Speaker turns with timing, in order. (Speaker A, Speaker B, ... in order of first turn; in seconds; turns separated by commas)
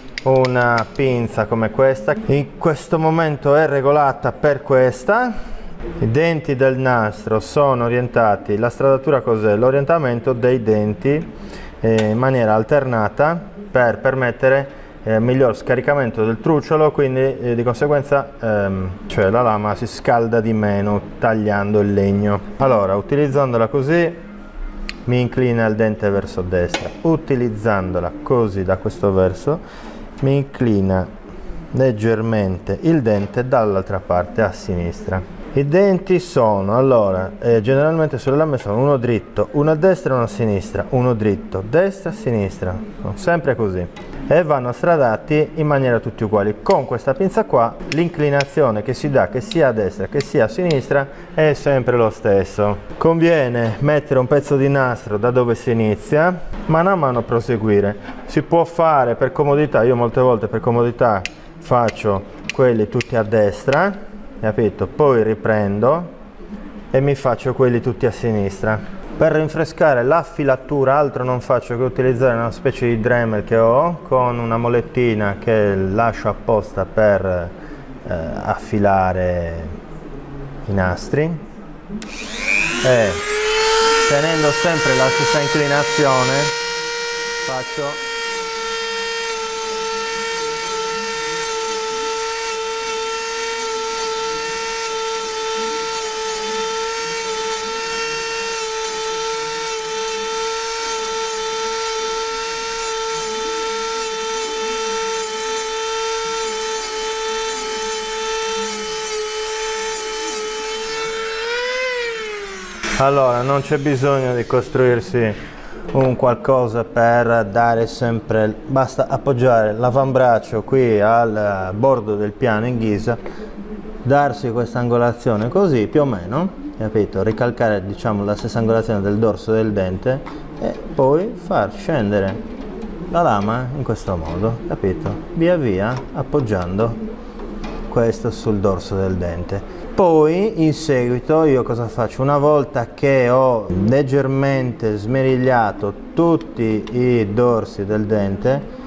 Speaker A: 0.2-5.3, Speaker A: 6.0-11.3, Speaker A: 11.8-24.2, Speaker A: 25.1-29.6, Speaker A: 30.2-31.1, Speaker A: 31.7-66.1, Speaker A: 66.9-77.5, Speaker A: 78.0-79.8, Speaker A: 80.7-81.4, Speaker A: 82.8-83.2, Speaker A: 84.0-86.5, Speaker A: 87.4-88.0, Speaker A: 113.0-115.3, Speaker A: 115.9-123.2, Speaker A: 124.0-132.4, Speaker A: 133.1-137.0, Speaker A: 137.9-148.7